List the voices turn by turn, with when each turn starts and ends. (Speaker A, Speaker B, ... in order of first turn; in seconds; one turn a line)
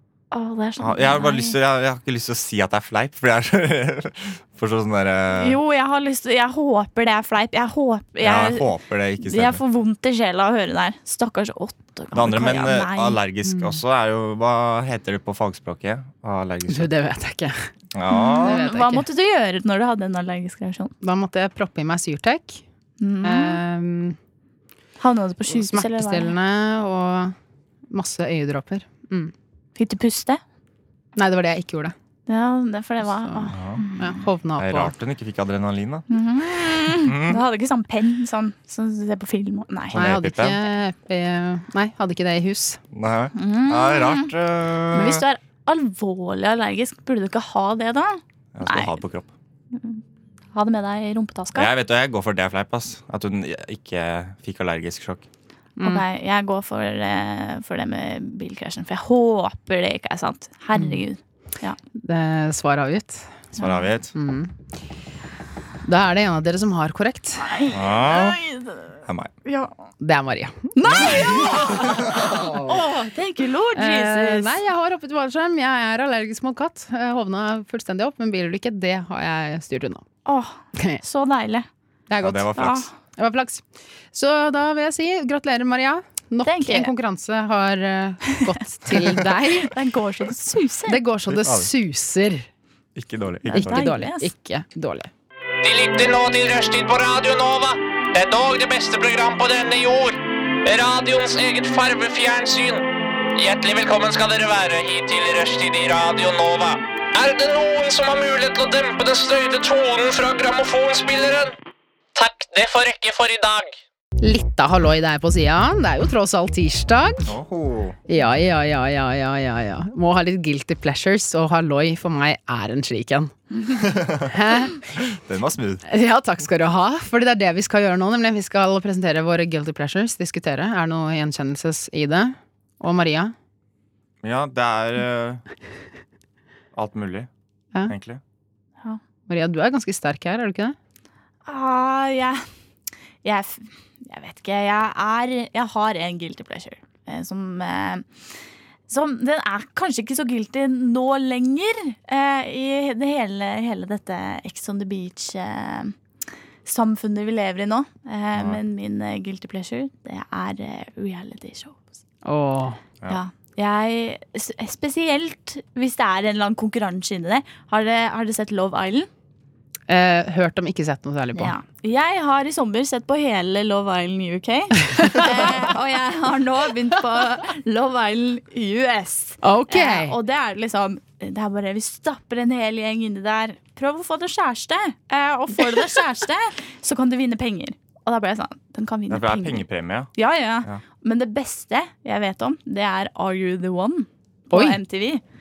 Speaker A: 0.3-1.6
Speaker B: 0.8-5.6
Speaker A: 5.3-13.2
Speaker B: 8.2-9.6
Speaker B: 12.1-16.9
Speaker C: 13.5-13.8
Speaker C: 16.7-17.6
Speaker B: 17.9-18.6
Speaker A: 18.1-20.9
Speaker C: 18.4-19.1
Speaker C: 21.0-22.6
Speaker A: 23.0-23.6
Speaker C: 23.2-24.2
Speaker A: 25.0-26.3
Speaker C: 25.5-27.4
Speaker C: 27.9-29.3
Speaker A: 29.8-30.4
Speaker C: 31.2-31.9
Speaker A: 32.3-34.2
Speaker C: 33.2-34.9
Speaker B: 33.5-33.8
Speaker B: 34.6-36.1
Speaker A: 36.1-40.0
Speaker B: 36.9-37.4
Speaker B: 39.9-40.6
Speaker C: 39.9-42.8
Speaker B: 42.9-45.2
Speaker A: 43.4-44.3
Speaker A: 44.9-49.0
Speaker B: 48.5-49.3
Speaker A: 49.8-50.0
Speaker A: 50.5-51.7
Speaker B: 51.5-55.2
Speaker C: 55.8-56.0
Speaker A: 55.8-61.8
Speaker C: 60.8-61.0
Speaker C: 62.0-63.3
Speaker A: 63.6-63.9
Speaker B: 63.6-64.1
Speaker C: 64.2-64.5
Speaker C: 65.8-67.5
Speaker A: 67.4-69.7
Speaker B: 67.7-68.4
Speaker C: 70.0-71.6
Speaker A: 70.8-74.6
Speaker C: 72.3-72.7
Speaker C: 73.8-80.0
Speaker A: 80.3-81.7
Speaker C: 82.1-82.5
Speaker B: 82.2-82.9
Speaker A: 82.6-82.9
Speaker C: 83.2-89.7
Speaker A: 86.5-86.9
Speaker A: 89.6-91.0
Speaker C: 90.9-92.5
Speaker B: 91.3-91.7
Speaker B: 93.0-93.9
Speaker C: 93.5-95.1
Speaker A: 93.5-94.3
Speaker D: 95.6-111.5
Speaker D: 112.2-113.8
Speaker C: 114.2-117.3
Speaker B: 117.2-118.0
Speaker C: 118.1-123.3
Speaker B: 123.8-124.3
Speaker C: 124.3-124.9
Speaker B: 125.2-125.8
Speaker C: 125.9-133.3
Speaker B: 134.2-135.4
Speaker B: 136.8-137.3
Speaker B: 137.9-138.2
Speaker C: 139.3-140.8
Speaker A: 141.5-142.5
Speaker A: 143.2-148.1
Speaker A: 148.9-155.9
Speaker A: 156.7-161.8
Speaker C: 162.2-162.8
Speaker A: 163.1-169.1
Speaker C: 169.9-171.5
Speaker A: 171.3-189.6
Speaker C: 174.9-175.5
Speaker C: 179.4-180.1
Speaker B: 189.1-190.1
Speaker A: 190.2-195.2
Speaker C: 194.5-194.8